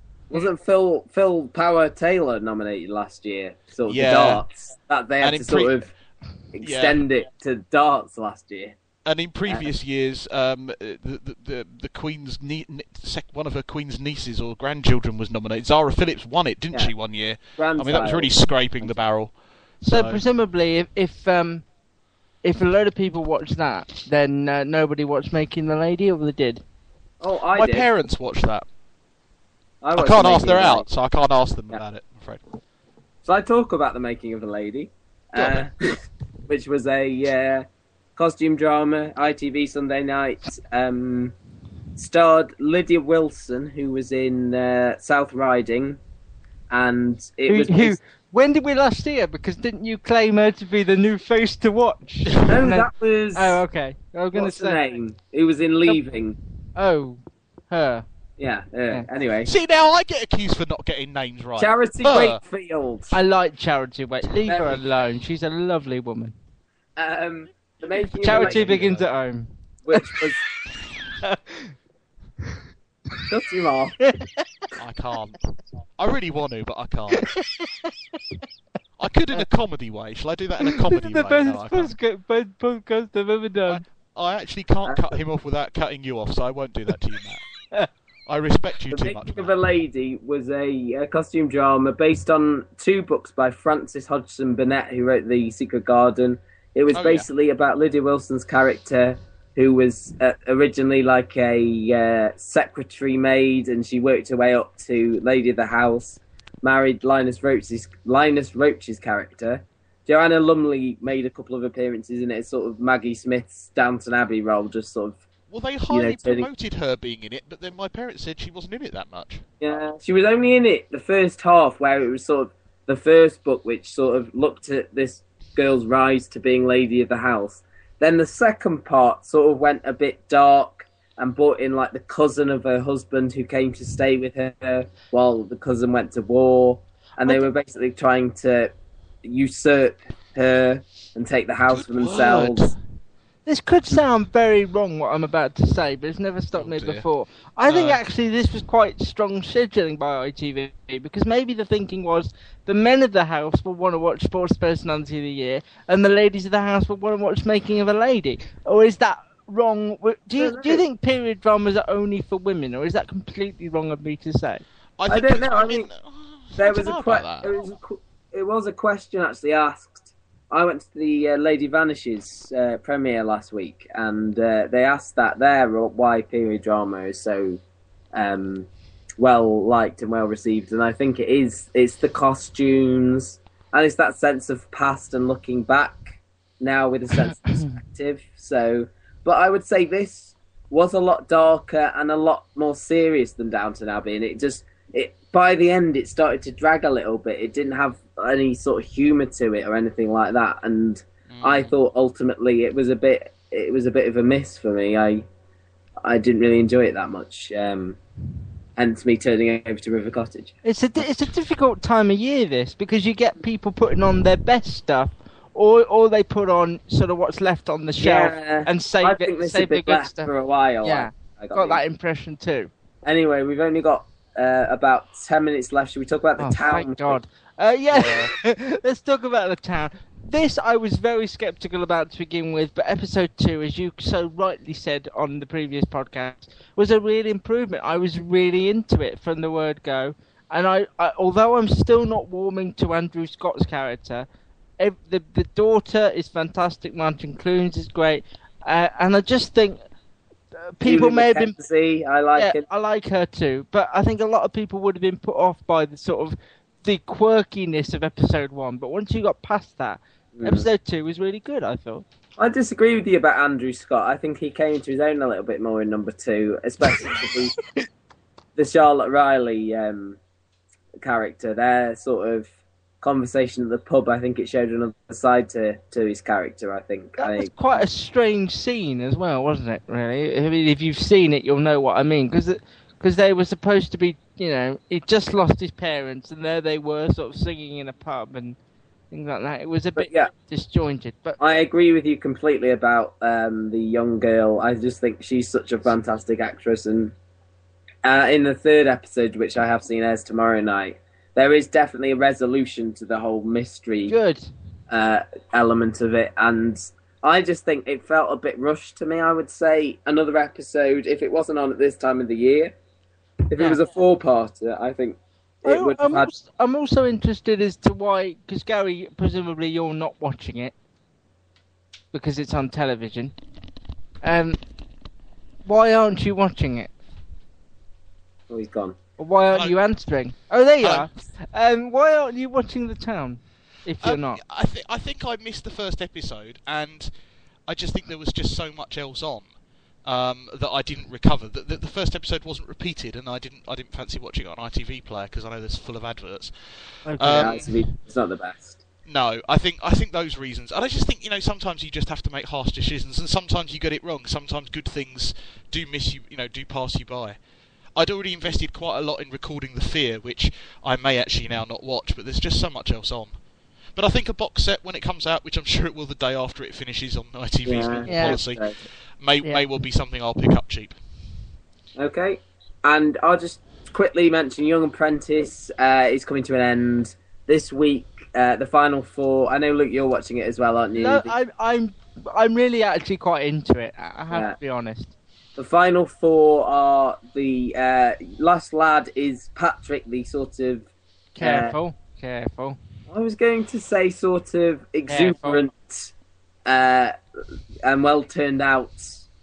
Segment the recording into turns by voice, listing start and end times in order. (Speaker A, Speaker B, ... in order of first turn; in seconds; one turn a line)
Speaker A: 0.3-5.9
Speaker B: 3.9-4.5
Speaker B: 5.2-5.8
Speaker A: 6.5-8.8
Speaker B: 6.6-7.0
Speaker B: 9.1-20.2
Speaker A: 17.6-18.9
Speaker C: 19.8-21.6
Speaker C: 22.4-26.6
Speaker A: 27.2-27.9
Speaker B: 27.6-28.6
Speaker A: 29.8-30.9
Speaker B: 29.9-32.4
Speaker A: 33.2-37.7
Speaker B: 35.4-35.7
Speaker A: 38.2-41.4
Speaker A: 42.0-46.0
Speaker A: 46.7-48.0
Speaker C: 47.5-54.8
Speaker A: 52.5-53.6
Speaker A: 54.3-56.4
Speaker C: 56.8-58.0
Speaker A: 58.4-59.5
Speaker B: 59.5-62.4
Speaker A: 61.6-63.2
Speaker C: 63.1-66.3
Speaker A: 64.5-64.8
Speaker A: 67.0-69.0
Speaker C: 68.2-70.2
Speaker B: 68.3-69.1
Speaker A: 69.8-70.4
Speaker C: 71.2-71.7
Speaker A: 73.3-74.0
Speaker C: 74.0-74.7
Speaker B: 74.8-77.3
Speaker C: 77.2-77.9
Speaker B: 79.0-82.0
Speaker C: 80.6-83.8
Speaker B: 83.7-87.5
Speaker B: 88.3-89.6
Speaker A: 88.9-115.2
Speaker B: 96.9-97.3
Speaker B: 115.5-119.4
Speaker A: 115.9-116.5
Speaker A: 119.6-138.7
Speaker A: 139.2-142.7
Speaker B: 141.7-142.8
Speaker C: 143.5-164.6
Speaker B: 146.6-147.1
Speaker B: 147.7-148.0
Speaker A: 160.4-160.8
Speaker B: 165.0-167.5
Speaker A: 165.1-165.9
Speaker A: 166.6-177.6
Speaker A: 178.1-178.7
Speaker A: 179.2-205.3
Speaker B: 201.3-201.7
Speaker A: 206.0-208.0
Speaker A: 208.8-210.6
Speaker C: 210.7-220.3
Speaker A: 218.0-221.8
Speaker C: 220.8-222.7
Speaker A: 223.1-227.2
Speaker C: 226.4-244.3
Speaker C: 244.8-249.8
Speaker C: 250.6-251.6
Speaker A: 250.8-252.6
Speaker C: 252.4-262.1
Speaker A: 260.3-260.7
Speaker A: 262.4-267.5
Speaker A: 268.6-270.2
Speaker A: 271.0-277.8
Speaker C: 277.2-288.6
Speaker C: 289.1-291.4
Speaker A: 290.0-290.3
Speaker A: 291.4-297.1
Speaker A: 298.0-304.1
Speaker C: 304.1-304.5
Speaker A: 304.9-312.7
Speaker A: 313.5-316.3
Speaker C: 315.6-320.7
Speaker C: 322.1-323.3
Speaker C: 324.2-324.6
Speaker C: 325.6-326.9
Speaker A: 328.5-329.0
Speaker C: 329.2-334.4
Speaker B: 330.8-331.2
Speaker B: 334.0-337.1
Speaker B: 337.7-339.5
Speaker B: 340.1-346.5
Speaker C: 347.1-347.7
Speaker B: 347.2-347.7
Speaker A: 347.4-348.8
Speaker B: 349.1-357.4
Speaker B: 358.0-363.4
Speaker B: 363.9-368.6
Speaker A: 367.7-368.8
Speaker C: 368.1-368.4
Speaker B: 369.2-371.0
Speaker A: 372.0-381.3
Speaker C: 381.0-385.1
Speaker A: 385.6-390.9
Speaker C: 391.4-392.8
Speaker A: 391.4-391.7
Speaker A: 393.1-396.1
Speaker C: 395.1-395.6
Speaker A: 396.7-397.1
Speaker A: 397.8-399.2